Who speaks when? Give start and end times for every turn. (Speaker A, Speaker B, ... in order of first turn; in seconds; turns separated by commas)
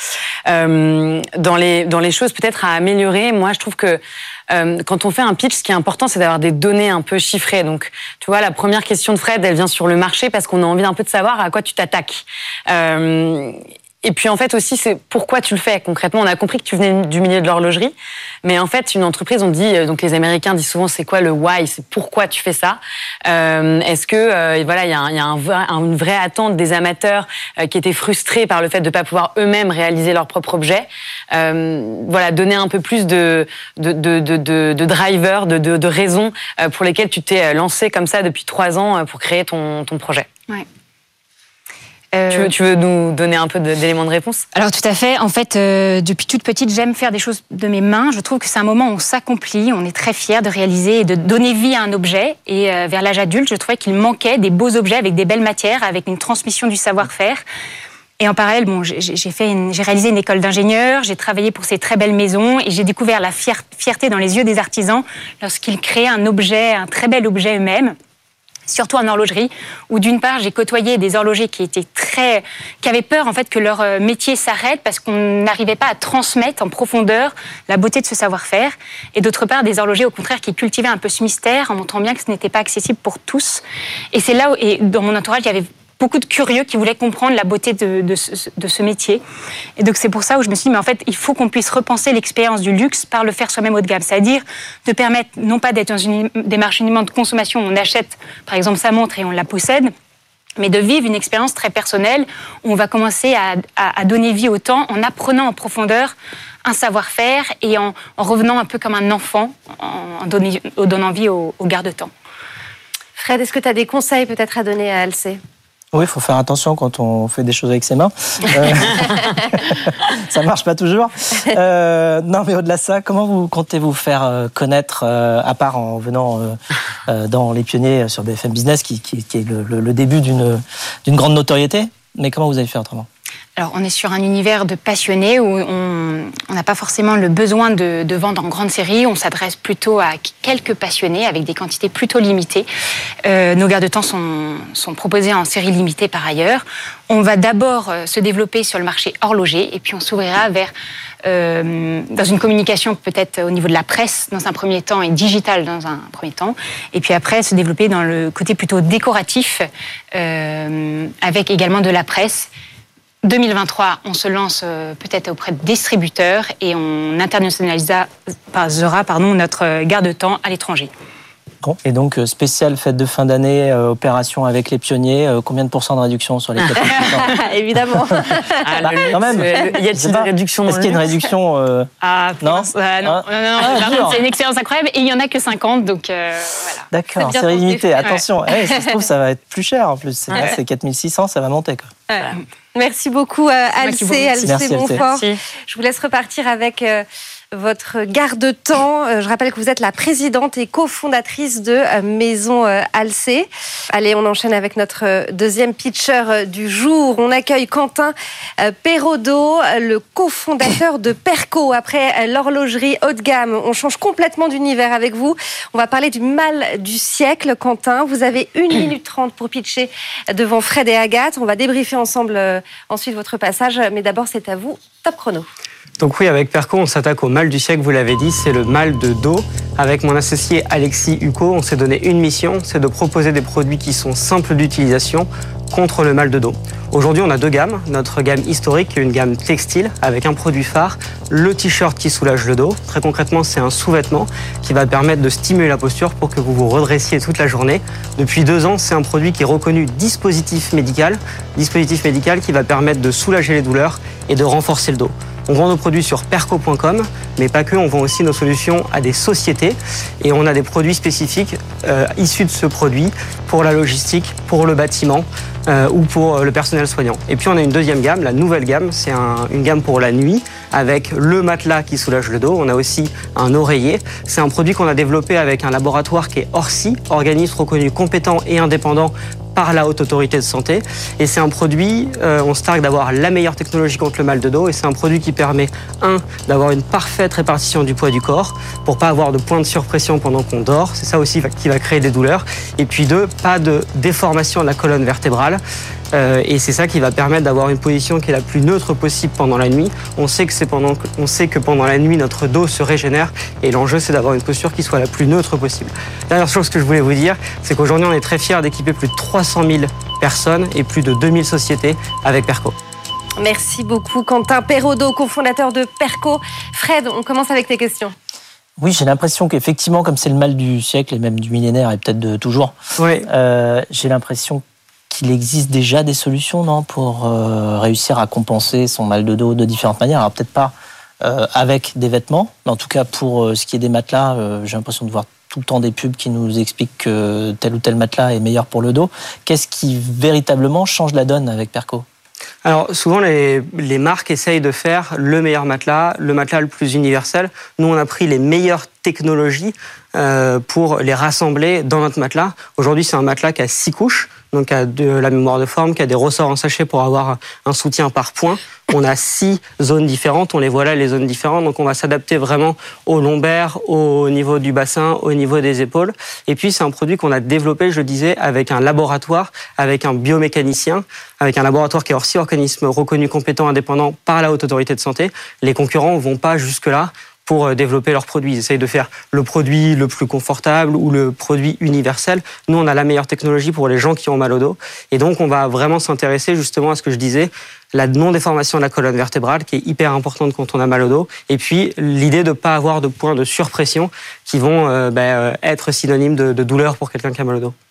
Speaker A: 0.5-40.3, Speaker B: 42.1-42.5, Speaker A: 42.3-44.4, Speaker B: 44.5-57.4, Speaker B: 58.2-68.0, Speaker B: 68.7-83.6, Speaker B: 84.1-89.2, Speaker B: 89.8-99.9, Speaker B: 100.6-106.1, Speaker B: 106.6-112.1, Speaker C: 113.2-115.4, Speaker D: 115.9-133.1, Speaker B: 133.6-142.7, Speaker B: 143.2-150.7, Speaker B: 151.2-162.5, Speaker B: 163.2-170.9, Speaker D: 171.6-177.3, Speaker C: 177.3-178.6, Speaker A: 178.6-181.0, Speaker D: 178.8-184.2, Speaker B: 182.0-186.8, Speaker D: 186.9-191.9, Speaker C: 187.2-188.0, Speaker C: 192.1-225.5, Speaker B: 193.8-194.5, Speaker D: 194.4-195.0, Speaker A: 195.0-195.3, Speaker E: 226.0-295.6, Speaker E: 296.1-312.8, Speaker C: 313.4-318.1, Speaker D: 318.8-322.8, Speaker E: 323.0-323.2, Speaker D: 323.2-342.0, Speaker E: 342.6-397.7